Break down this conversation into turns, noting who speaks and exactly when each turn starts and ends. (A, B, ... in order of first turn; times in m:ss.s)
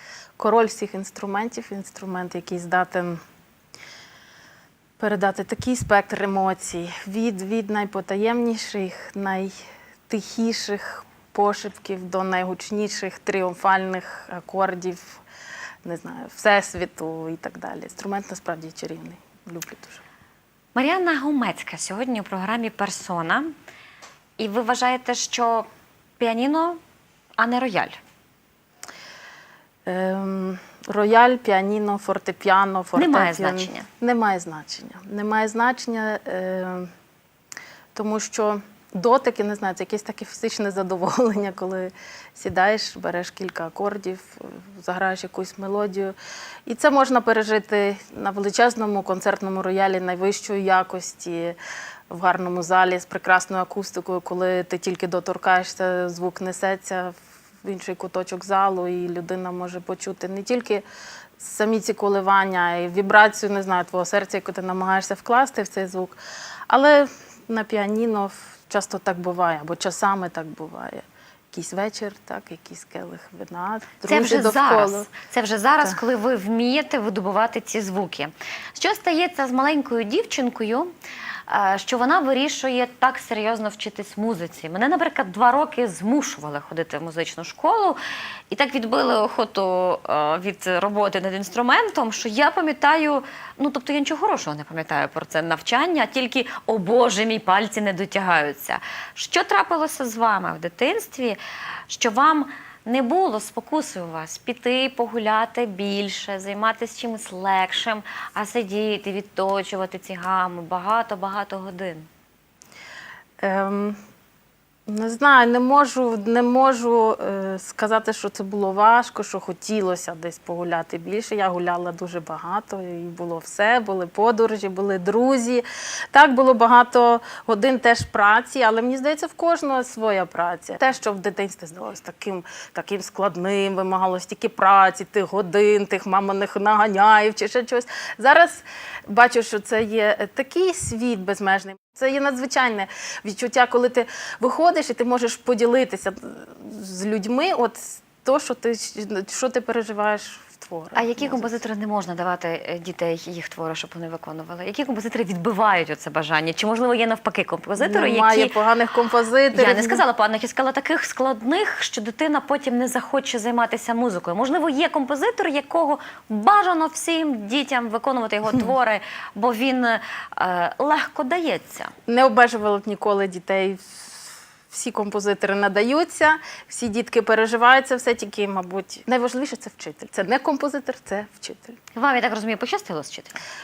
0:00.4-0:03.2 A
0:05.0-0:09.5 A
0:10.1-0:15.2 A
0:15.8-0:20.0 A
0:20.7-0:23.5 B
0:24.4-0:25.7 B
0:26.2-0:26.8 B
0:27.4-0:28.0 B
0:29.8-0:36.9 A
0:33.0-0:33.9 B
0:37.9-0:46.2 A
0:46.7-0:51.6 A
0:52.1-1:00.8 A
1:01.4-1:06.2 A
1:06.7-1:15.1 A
1:14.1-1:20.9 B
1:21.5-1:28.0 B
1:28.5-1:52.1 B
1:53.4-1:54.0 A
1:54.9-2:31.6 A
2:30.9-2:38.5 B
2:37.8-2:40.0 A
2:39.5-2:51.9 B
2:52.1-3:01.8 A
3:01.9-3:03.4 B